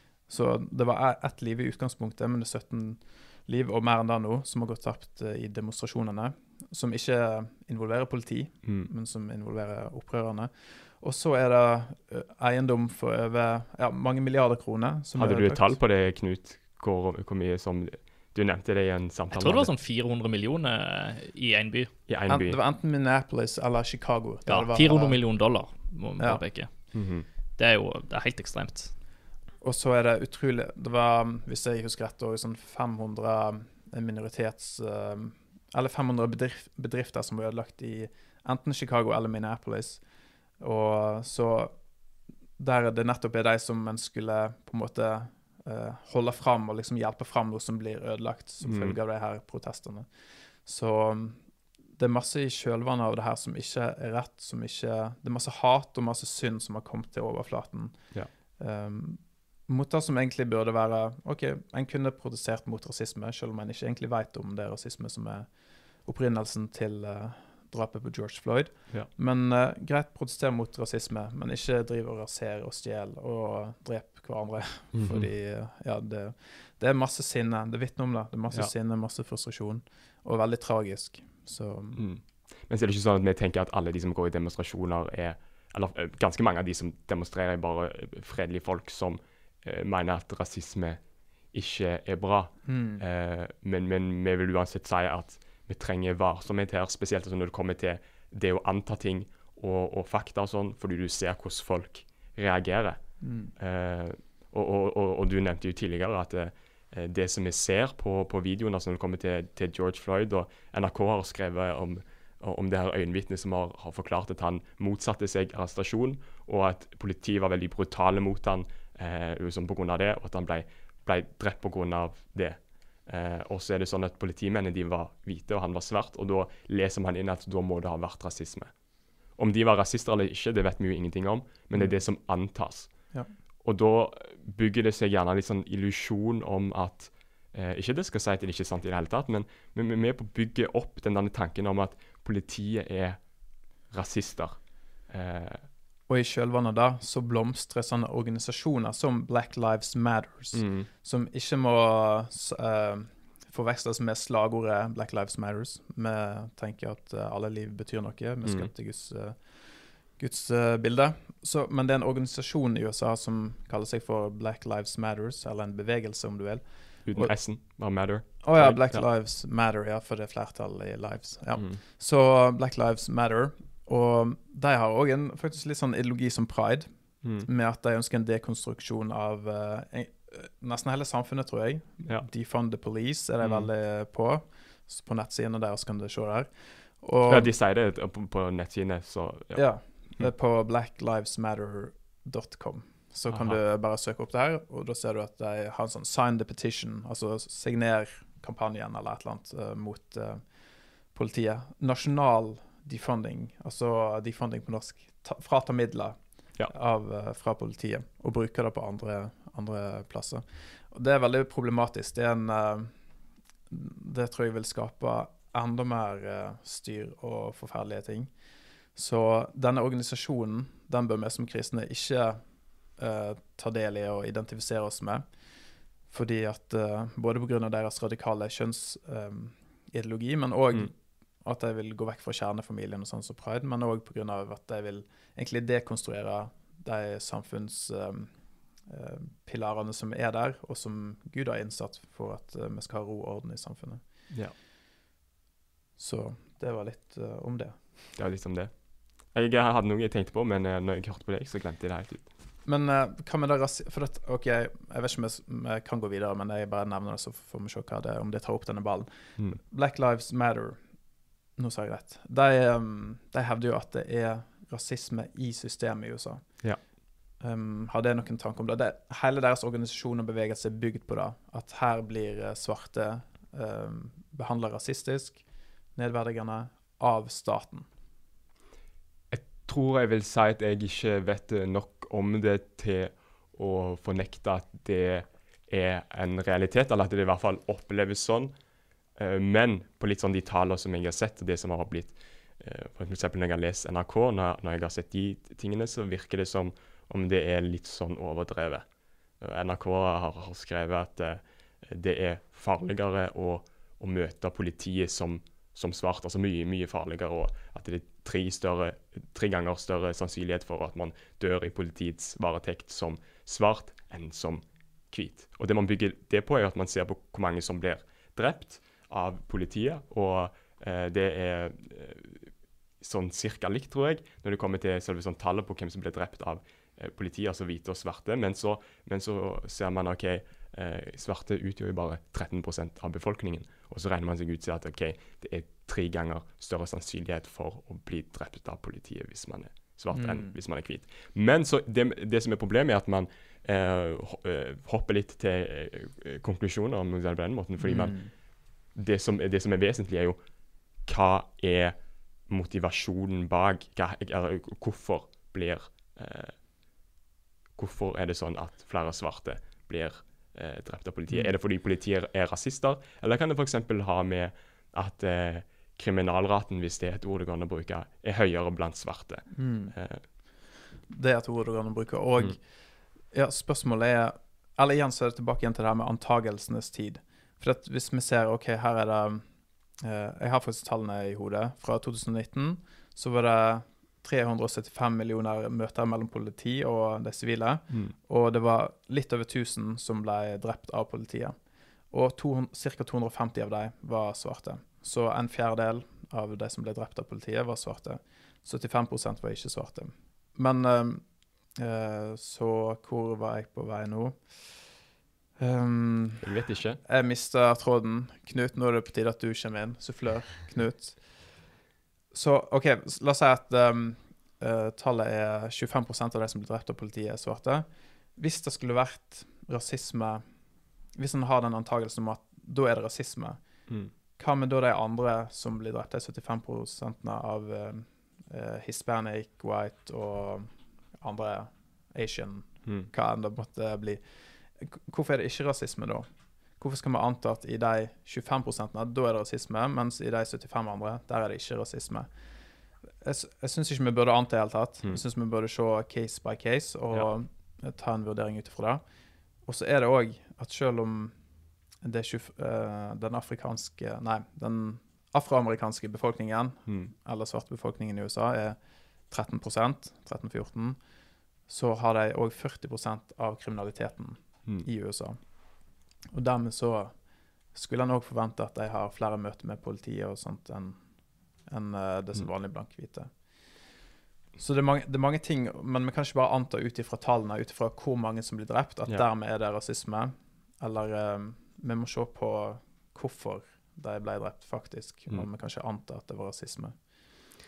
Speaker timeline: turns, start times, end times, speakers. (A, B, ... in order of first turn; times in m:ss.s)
0:00.3-0:15.8 A
0:15.2-0:19.7 B
0:19.3-0:21.9 C
0:22.1-0:22.6 B
0:22.3-0:25.2 A
0:24.5-0:26.7 C
0:26.2-0:26.4 A
0:26.9-0:27.3 B
0:27.6-0:28.9 C
0:29.6-0:40.0 A
0:40.6-0:41.8 A
0:42.6-0:50.1 A
0:48.6-0:49.0 B
0:50.6-0:51.4 A
0:52.0-0:58.0 A
0:58.6-1:05.5 A
1:06.0-1:22.0 A
1:14.9-1:15.3 B
1:22.0-1:31.0 B
1:31.5-1:43.0 B
1:32.6-1:33.0 A
1:43.2-1:43.5 A
1:43.6-2:08.7 B
2:09.4-2:12.9 B
2:11.7-2:12.0 A
2:13.6-2:23.2 B
2:23.9-2:25.7 B
2:26.1-2:47.3 A
2:30.5-2:30.9 B
2:38.4-2:38.7 B
2:47.1-2:49.0 B
2:48.4-2:56.9 A
2:57.4-3:07.5 A
3:03.4-3:03.7 B
3:07.3-3:09.6 B
3:09.5-3:20.4 A
3:13.3-3:13.6 B
3:21.1-3:26.2 A
3:26.7-3:32.9 A
3:33.7-3:38.3 A
3:39.0-3:42.4 A
3:43.0-3:45.2 A
3:46.1-3:58.3 A
3:58.9-4:04.0 A
4:06.0-4:07.8 A
4:08.2-4:08.7 B
4:09.3-4:12.3 B
4:12.6-4:20.8 A
4:21.6-4:26.4 A
4:27.4-4:35.4 A
4:36.0-4:37.9 A
4:39.3-4:48.5 B
4:49.2-4:58.8 B
4:59.4-5:48.2 B
5:40.1-5:40.6 A
5:47.8-5:48.3 A
5:48.9-5:50.4 B
5:51.0-5:52.0 B
5:52.5-5:56.6 B
5:57.8-6:10.2 B
6:01.3-6:01.5 A
6:09.5-6:10.0 A
6:11.0-6:12.6 A
6:13.3-6:19.4 A
6:20.0-6:31.6 A
6:27.9-6:28.2 B
6:32.1-6:41.2 A
6:41.8-6:44.7 A
6:45.6-6:46.5 A
6:46.4-6:47.0 B
6:47.0-6:51.2 A
6:52.3-7:00.4 A
7:01.2-7:03.6 A
7:04.4-7:16.3 A
7:16.8-7:22.3 A
7:23.2-7:29.0 A
7:29.6-7:31.4 A
7:32.0-7:38.8 A
7:36.9-7:37.1 B
7:39.3-7:41.0 A
7:41.7-7:45.4 A
7:46.3-7:47.1 A
7:47.7-7:51.0 A
7:51.7-7:53.3 A
7:54.6-8:07.0 A